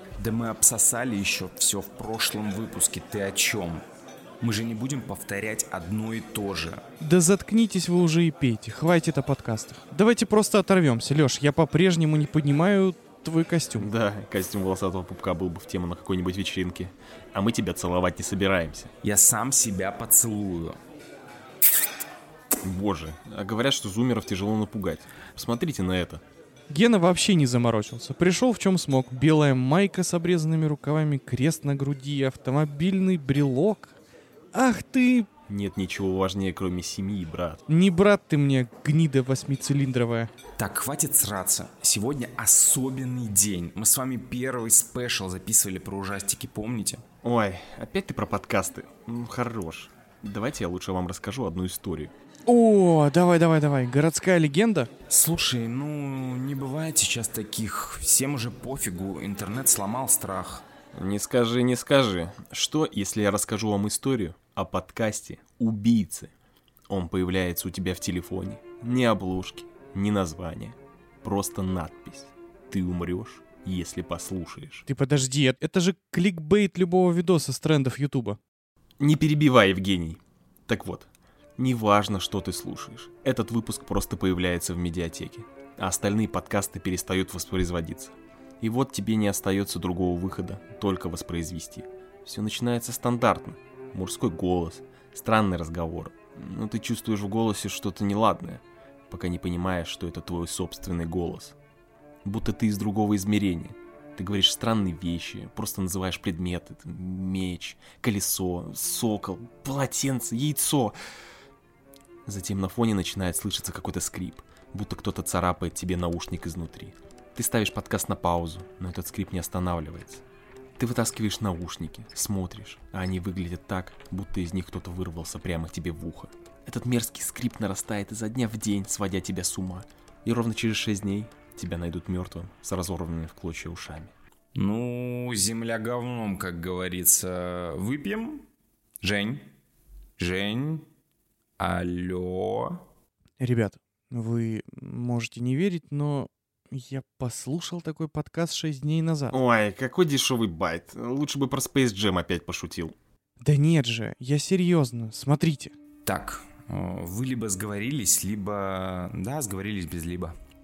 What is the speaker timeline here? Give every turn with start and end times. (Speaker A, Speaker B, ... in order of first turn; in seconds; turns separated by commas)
Speaker A: 0.2-3.8, Speaker A: 4.4-6.8, Speaker B: 7.0-13.9, Speaker C: 13.8-18.9, Speaker A: 19.0-20.8, Speaker C: 22.6-26.2, Speaker B: 26.7-34.0, Speaker B: 34.5-35.3, Speaker C: 35.5-37.6, Speaker B: 37.7-40.3, Speaker A: 40.6-47.0, Speaker C: 47.2-52.1, Speaker B: 52.5-54.9, Speaker A: 55.1-60.6, Speaker C: 60.9-66.3, Speaker C: 66.9-74.8, Speaker B: 74.9-78.4, Speaker C: 79.0-101.5, Speaker C: 102.2-111.0, Speaker C: 112.2-120.2, Speaker C: 120.8-134.1, Speaker A: 134.5-138.4, Speaker A: 139.0-139.5, Speaker A: 140.2-140.9, Speaker A: 141.6-142.8, Speaker B: 143.4-149.3, Speaker C: 149.3-152.9, Speaker B: 153.4-155.7, Speaker A: 156.0-160.3